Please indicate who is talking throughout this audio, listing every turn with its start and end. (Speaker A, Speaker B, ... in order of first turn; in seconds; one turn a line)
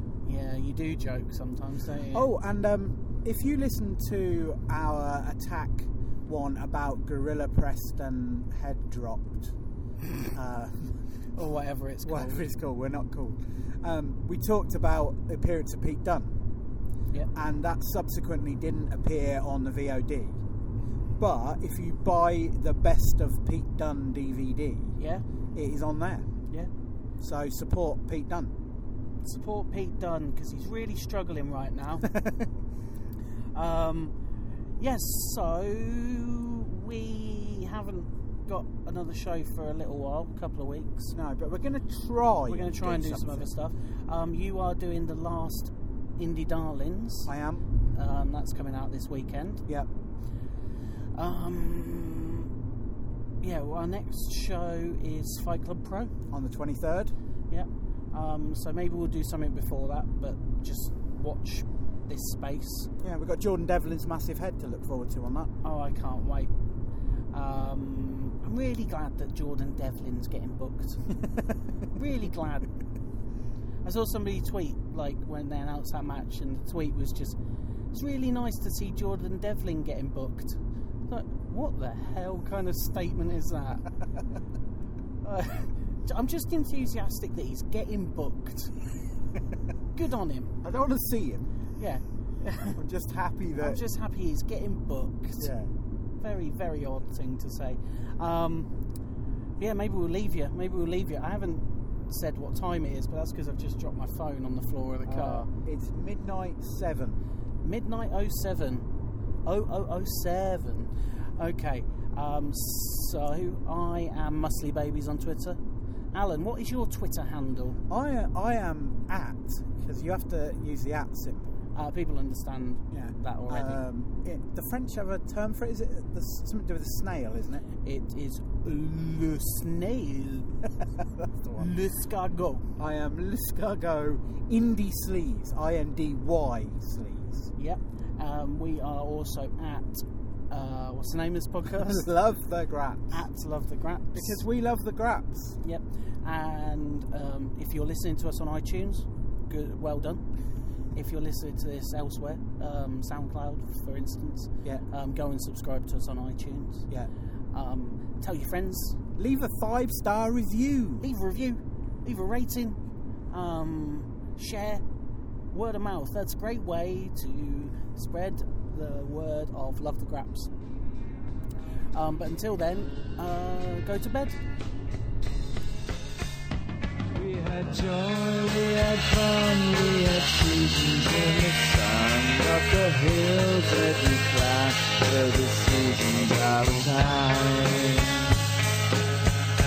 Speaker A: 0.2-2.3
Speaker B: 2.1-9.5
Speaker B: 10.3-10.9
Speaker A: 11.4-12.4
Speaker B: 12.1-16.4
Speaker B: 17.3-20.4
Speaker B: 21.2-24.9
Speaker A: 25.0-25.2
Speaker B: 25.6-26.3
Speaker B: 27.2-28.5
Speaker A: 29.2-32.1
Speaker B: 32.1-32.5
Speaker A: 33.5-34.1
Speaker A: 34.8-41.1
Speaker B: 41.1-43.5
Speaker A: 42.5-47.3
Speaker B: 47.3-47.7
Speaker A: 47.9-49.7
Speaker A: 51.2-52.5
Speaker A: 53.4-56.1
Speaker B: 56.3-57.1
Speaker A: 57.5-62.9
Speaker B: 63.0-65.5
Speaker A: 65.6-66.5
Speaker A: 67.3-71.2
Speaker A: 71.9-72.7
Speaker A: 73.8-77.4
Speaker A: 77.9-83.9
Speaker A: 85.2-88.8
Speaker A: 90.0-90.5
Speaker B: 90.6-91.5
Speaker A: 91.8-92.8
Speaker B: 92.8-93.8
Speaker A: 93.6-95.5
Speaker B: 95.4-95.7
Speaker A: 96.2-98.7
Speaker A: 99.6-105.5
Speaker B: 105.1-107.2
Speaker A: 107.6-108.9
Speaker A: 109.5-115.6
Speaker A: 116.1-117.8
Speaker B: 117.9-121.5
Speaker A: 121.8-123.8
Speaker B: 122.9-127.7
Speaker A: 127.8-130.6
Speaker B: 131.2-131.7
Speaker A: 131.6-132.7
Speaker B: 132.8-137.5
Speaker A: 137.6-142.1
Speaker B: 141.7-143.1
Speaker A: 143.1-144.4
Speaker B: 144.1-145.6
Speaker A: 145.6-150.2
Speaker A: 150.9-156.9
Speaker A: 157.5-159.0
Speaker B: 159.2-161.1
Speaker A: 161.0-162.8
Speaker A: 163.3-164.8
Speaker A: 165.5-170.5
Speaker A: 171.9-174.4
Speaker C: 177.1-188.3